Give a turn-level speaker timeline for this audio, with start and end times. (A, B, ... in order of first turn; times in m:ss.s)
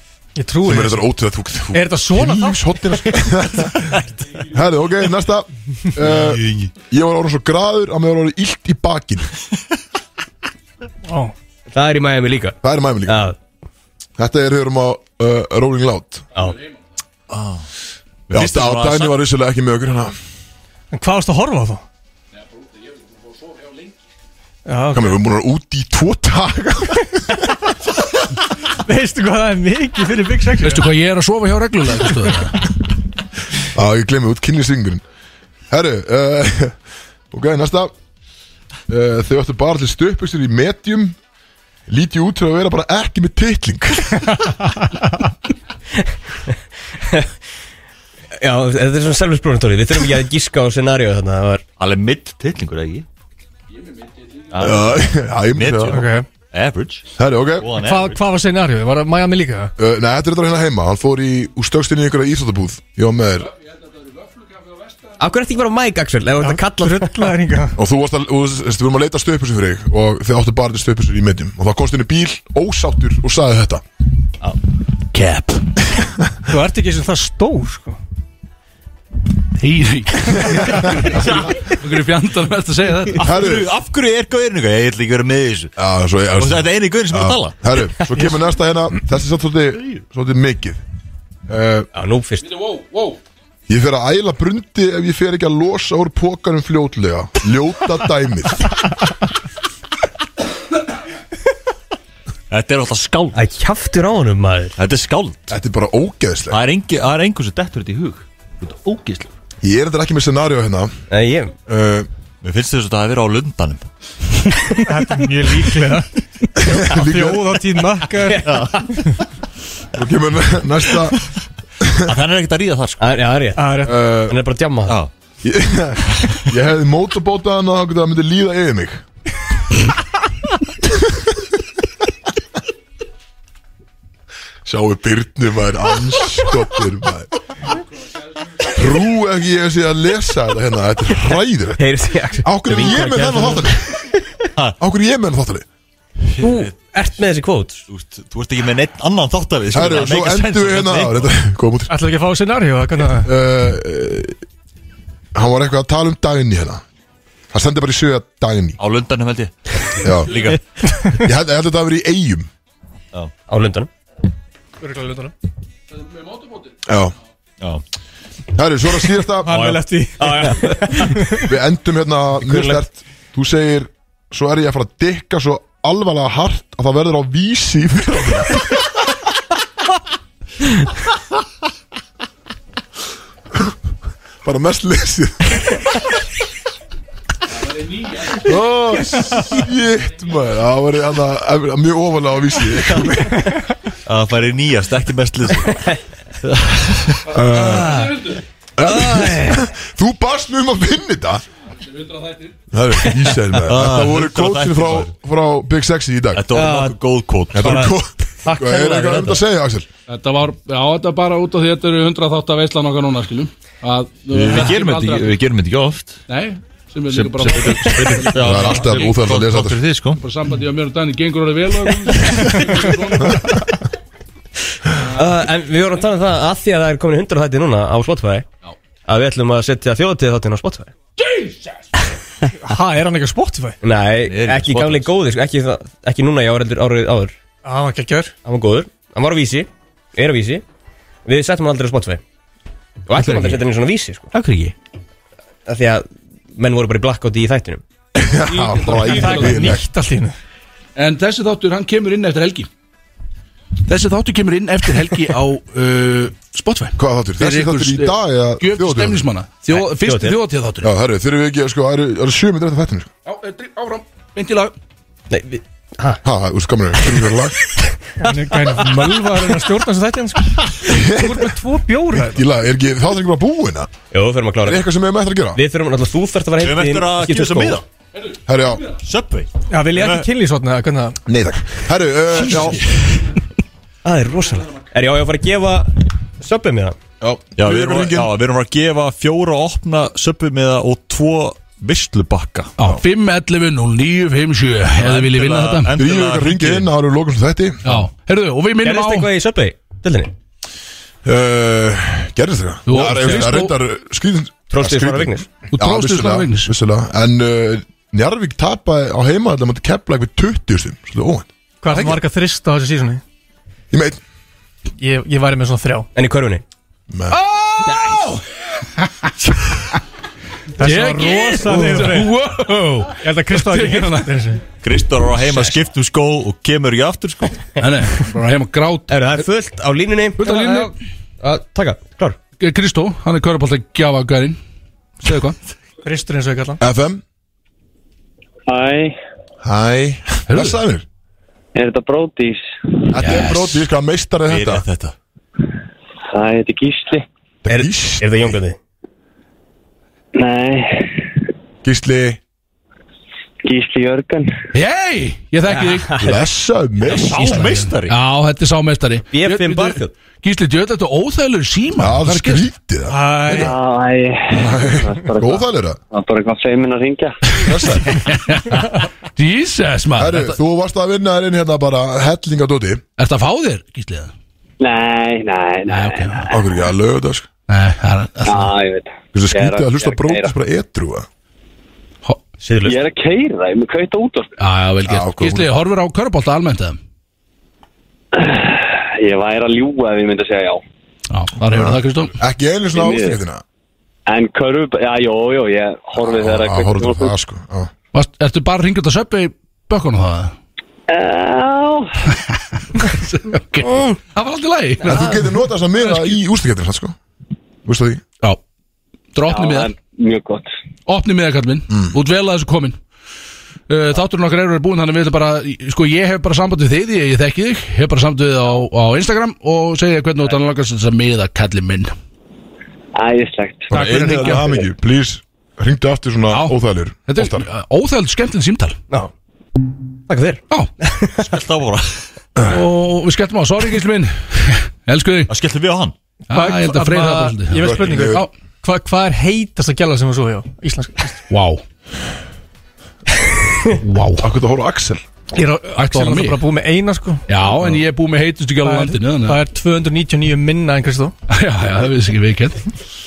0:00.4-0:01.1 A
0:00.6-0:09.3 B
0:01.7-0:03.2 A
0:06.2-0:06.7 C
0:11.0-0:11.3 A
0:11.7-0:13.4 D
0:12.6-0:13.3 B
0:14.2-0:16.3 B
0:17.3-0:17.6 C
0:18.3-0:19.2 C
0:18.3-0:20.2 B
0:20.9-0:21.8 A
0:23.5-0:23.8 E
0:24.6-0:25.2 A
0:24.9-0:27.5 B
0:28.7-0:30.9 A
0:30.6-0:32.7 E
0:33.6-0:35.0 B
0:35.7-0:36.8 B
0:37.3-0:37.9 B
0:38.9-0:41.2 B
0:41.9-0:44.5 B
0:46.5-0:47.3 D
0:48.4-0:51.6 D
0:51.8-0:53.1 C
0:54.0-0:54.5 E
0:54.5-0:57.1 C
0:54.6-0:56.1 B
0:55.9-0:56.3 A
0:57.2-0:57.8 B
0:57.6-0:58.2 C
0:57.8-0:59.7 A
0:59.8-1:03.5 B
1:04.0-1:05.1 E
1:05.2-1:07.4 D
1:06.4-1:07.8 A
1:07.8-1:13.8 B
1:15.1-1:15.6 E
1:16.5-1:18.0 A
1:19.6-1:23.2 E
1:23.2-1:23.7 B
1:23.2-1:25.7 C
1:25.8-1:30.8 B
1:26.4-1:28.2 C
1:31.5-1:31.9 B
1:31.9-1:32.5 D
1:32.4-1:33.2 E
1:33.7-1:38.8 B
1:42.5-1:43.4 C
1:43.3-1:44.8 D
1:44.8-1:45.5 C
1:45.5-1:46.6 B
1:46.5-1:49.3 C
1:49.6-1:50.9 B
1:51.1-1:51.5 D
1:51.7-1:52.1 B
1:52.4-1:53.9 C
1:54.9-1:58.5 A
1:56.6-1:57.8 B
1:58.3-1:58.9 D
1:58.4-1:58.8 C
1:59.9-2:01.2 B
2:01.8-2:02.1 B
2:02.0-2:03.1 C
2:03.0-2:05.0 D
2:03.6-2:04.0 A
2:03.8-2:04.4 B
2:05.4-2:09.0 B
2:11.0-2:11.3 B
2:14.6-2:17.3 B
2:18.6-2:21.9 B
2:21.8-2:24.4 D
2:22.4-2:23.9 B
2:24.8-2:25.7 B
2:26.4-2:26.7 C
2:26.4-2:27.8 D
2:27.9-2:31.3 C
2:29.7-2:31.9 B
2:31.9-2:33.3 A
2:33.2-2:34.4 B
2:35.4-2:36.8 B
2:37.5-2:38.8 B
2:38.8-2:40.6 C
2:40.0-2:40.6 B
2:41.2-2:42.5 B
2:43.5-2:43.9 D
2:44.8-2:45.3 A
2:46.8-2:47.2 B
2:48.6-2:49.6 B
2:49.4-2:51.3 A
2:49.5-2:51.5 D
2:51.4-2:58.9 B
2:52.4-2:52.8 D
3:04.4-3:05.8 B
3:07.5-3:09.5 E
3:08.4-3:13.5 B
3:14.1-3:15.8 C
3:16.5-3:17.2 C
3:17.3-3:18.1 B
3:17.3-3:18.4 E
3:17.6-3:18.2 D
3:18.8-3:21.4 B
3:18.8-3:19.6 D
3:21.8-3:22.6 E
3:22.7-3:26.5 B
3:23.7-3:25.1 C
3:26.4-3:28.0 C
3:26.5-3:27.0 D
3:27.5-3:29.9 B
3:27.6-3:29.3 D
3:29.1-3:29.4 C
3:30.1-3:35.4 E
3:34.3-3:36.2 C
3:36.3-3:39.1 E
3:37.1-3:40.2 C
3:38.4-3:39.8 B
3:40.2-3:43.5 E
3:45.0-3:48.5 D
3:49.1-3:50.9 D
3:51.2-3:51.9 E
3:52.6-3:53.8 A
3:53.8-3:57.3 D
3:54.2-3:55.1 C
3:57.6-3:58.3 A
3:58.4-4:00.6 D
4:01.2-4:02.2 D
4:03.1-4:04.3 D
4:03.2-4:03.6 C
4:05.7-4:07.8 D
4:08.2-4:09.9 B
4:08.4-4:09.8 E
4:09.0-4:10.4 A
4:11.0-4:12.7 E
4:13.9-4:20.9 E
4:17.0-4:19.2 B
4:19.7-4:20.4 D
4:20.8-4:23.1 B
4:23.3-4:24.7 E
4:25.3-4:26.2 D
4:26.2-4:27.6 B
4:27.1-4:29.4 D
4:28.2-4:32.4 A
4:30.8-4:31.6 B
4:32.1-4:33.9 B
4:34.1-4:34.9 D
4:34.6-4:35.6 B
4:35.6-4:37.8 D
4:36.6-4:37.8 C
4:38.5-4:38.9 B
4:38.9-4:40.3 C
4:39.7-4:41.2 A
4:41.3-4:43.1 B
4:44.0-4:47.0 D
4:47.2-4:48.3 B
4:47.6-4:52.7 C
4:52.8-4:55.9 E
4:55.0-4:56.9 C
4:55.9-4:57.8 B
4:57.8-4:59.3 E
4:58.8-5:00.3 D
5:01.2-5:11.5 B
5:02.9-5:03.8 E
5:04.7-5:05.5 D
5:05.7-5:06.7 E
5:11.8-5:13.2 A
5:13.9-5:14.2 B
5:15.0-5:16.1 A
5:16.2-5:16.6 D
5:17.1-5:17.4 B
5:17.3-5:19.3 E
5:20.8-5:22.4 A
5:20.8-5:24.4 E
5:23.1-5:24.6 A
5:24.7-5:27.6 C
5:25.4-5:25.8 E
5:27.8-5:29.1 E
5:29.1-5:32.4 D
5:30.4-5:30.9 E
5:32.6-5:34.6 E
5:35.2-5:35.6 E
5:36.0-5:36.8 A
5:36.8-5:37.2 B
5:38.7-5:39.2 F
5:39.6-5:41.1 B
5:40.5-5:40.8 E
5:41.8-5:43.1 F
5:43.1-5:44.9 B
5:43.2-5:43.8 E
5:44.5-5:45.1 C
5:46.3-5:47.3 F
5:47.6-5:48.6 B
5:47.7-5:48.8 D
5:50.3-5:51.3 F
5:51.8-5:52.4 B
5:53.6-5:54.5 F
5:54.7-5:56.1 E
5:55.6-5:56.5 D
5:56.2-5:57.8 B
5:57.2-5:58.2 C
5:58.0-6:02.7 E
5:59.3-6:00.1 D
6:02.0-6:03.7 B
6:03.1-6:03.7 A
6:03.5-6:07.4 F
6:04.5-6:06.0 B
6:07.6-6:10.6 E
6:07.6-6:08.3 B
6:10.2-6:13.0 B
6:13.2-6:14.3 E
6:14.8-6:16.6 F
6:15.9-6:16.5 E
6:16.5-6:17.5 B
6:17.7-6:18.7 E
6:18.4-6:20.5 F
6:19.3-6:21.3 B
6:22.6-6:23.0 D
6:22.8-6:24.6 F
6:24.6-6:27.0 E
6:25.1-6:25.7 B
6:28.3-6:30.8 F
6:31.3-6:32.4 E
6:31.7-6:33.6 B
6:32.9-6:33.4 F
6:34.3-6:37.3 F
6:36.2-6:37.9 B
6:38.1-6:40.6 E
6:41.1-6:42.2 F
6:42.3-6:46.4 E
6:45.0-6:47.2 B
6:47.8-6:48.2 B
6:49.3-6:49.9 E
6:49.5-6:50.7 F
6:51.1-6:53.0 E
6:53.9-7:02.1 E
7:03.2-7:04.8 F
7:03.9-7:04.7 E
7:03.9-7:07.6 B
7:06.5-7:09.0 E
7:10.3-7:11.6 D
7:11.4-7:12.3 C
7:12.6-7:15.5 E
7:15.5-7:16.1 C
7:16.5-7:21.4 A
7:16.5-7:18.5 E
7:17.7-7:18.5 B
7:21.5-7:21.8 E
7:24.0-7:24.5 E
7:24.4-7:25.2 B
7:25.5-7:27.4 A
7:26.0-7:26.6 E
7:27.5-7:29.6 E
7:28.8-7:31.3 A
7:31.5-7:32.8 E